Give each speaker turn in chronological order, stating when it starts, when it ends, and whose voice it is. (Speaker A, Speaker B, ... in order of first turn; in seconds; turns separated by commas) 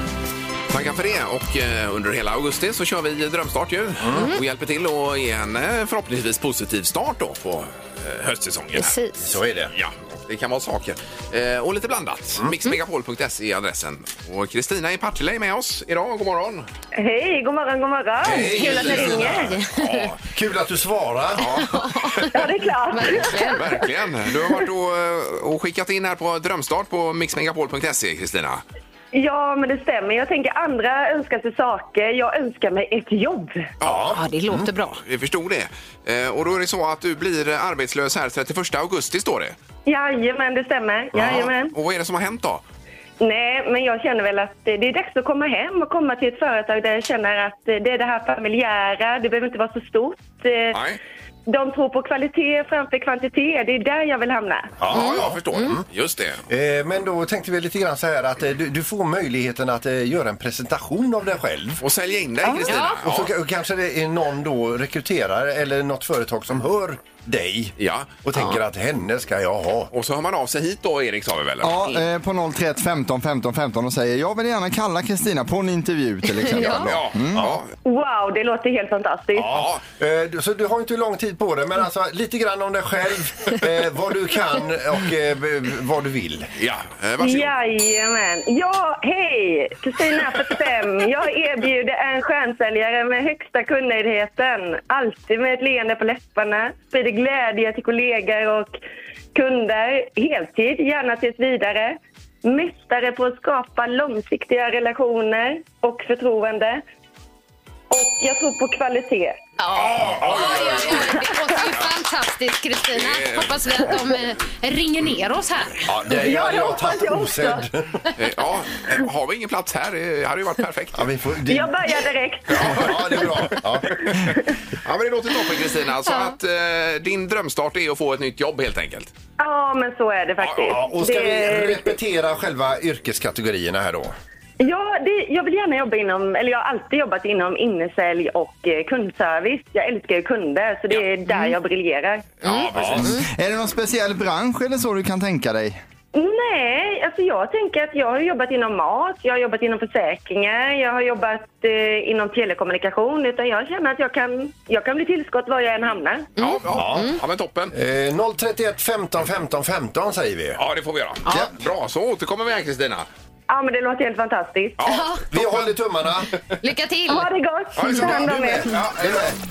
Speaker A: 0.7-8.9, Speaker B: 4.0-4.3, Speaker C: 4.1-4.4, Speaker C: 8.7-9.3, Speaker B: 9.2-9.7, Speaker A: 9.7-16.7, Speaker D: 17.0-19.5, Speaker B: 18.2-19.5, Speaker C: 18.4-20.1, Speaker A: 19.7-20.2, Speaker B: 20.3-21.5, Speaker A: 21.4-22.4, Speaker C: 21.4-23.8, Speaker D: 22.3-23.6, Speaker A: 23.1-28.6, Speaker D: 29.1-33.7, Speaker A: 33.8-34.1, Speaker B: 33.8-34.7, Speaker C: 34.1-35.0, Speaker A: 35.0-39.6, Speaker D: 39.9-41.7, Speaker B: 41.2-41.4, Speaker A: 41.2-42.6, Speaker D: 43.2-50.8, Speaker A: 50.7-51.0, Speaker D: 51.5-54.7, Speaker B: 54.8-55.8, Speaker A: 54.8-56.4, Speaker C: 54.9-55.8, Speaker B: 56.5-61.8, Speaker A: 61.8-63.3, Speaker C: 62.6-63.0, Speaker B: 62.7-69.9, Speaker A: 67.8-68.2, Speaker A: 69.9-72.0, Speaker E: 71.6-77.5, Speaker C: 76.4-76.9, Speaker A: 76.8-77.7, Speaker D: 77.8-79.5, Speaker B: 79.3-86.5, Speaker A: 79.4-79.8, Speaker A: 86.6-87.5, Speaker D: 87.2-98.8, Speaker D: 99.3-106.8, Speaker D: 107.9-109.4, Speaker C: 109.6-115.9, Speaker A: 109.7-111.7, Speaker A: 112.9-114.0, Speaker B: 115.9-118.0, Speaker D: 116.1-117.7, Speaker A: 118.2-121.1, Speaker B: 120.9-121.8, Speaker D: 121.5-123.1, Speaker A: 122.5-129.1, Speaker B: 122.6-124.0, Speaker C: 126.1-126.3, Speaker D: 129.4-132.0, Speaker A: 130.4-130.7, Speaker B: 130.7-134.1, Speaker D: 134.6-142.3, Speaker A: 142.4-143.2, Speaker C: 142.4-143.2, Speaker B: 142.8-143.1, Speaker E: 142.9-145.8, Speaker D: 146.1-156.3, Speaker C: 156.4-157.2, Speaker A: 156.4-157.7, Speaker B: 156.8-157.2, Speaker B: 157.7-160.6, Speaker A: 160.6-163.1, Speaker D: 163.5-164.8, Speaker A: 164.8-165.7, Speaker C: 164.8-165.2, Speaker B: 165.3-166.3, Speaker C: 166.6-167.3, Speaker D: 167.1-168.8, Speaker A: 167.8-169.3, Speaker B: 168.0-169.4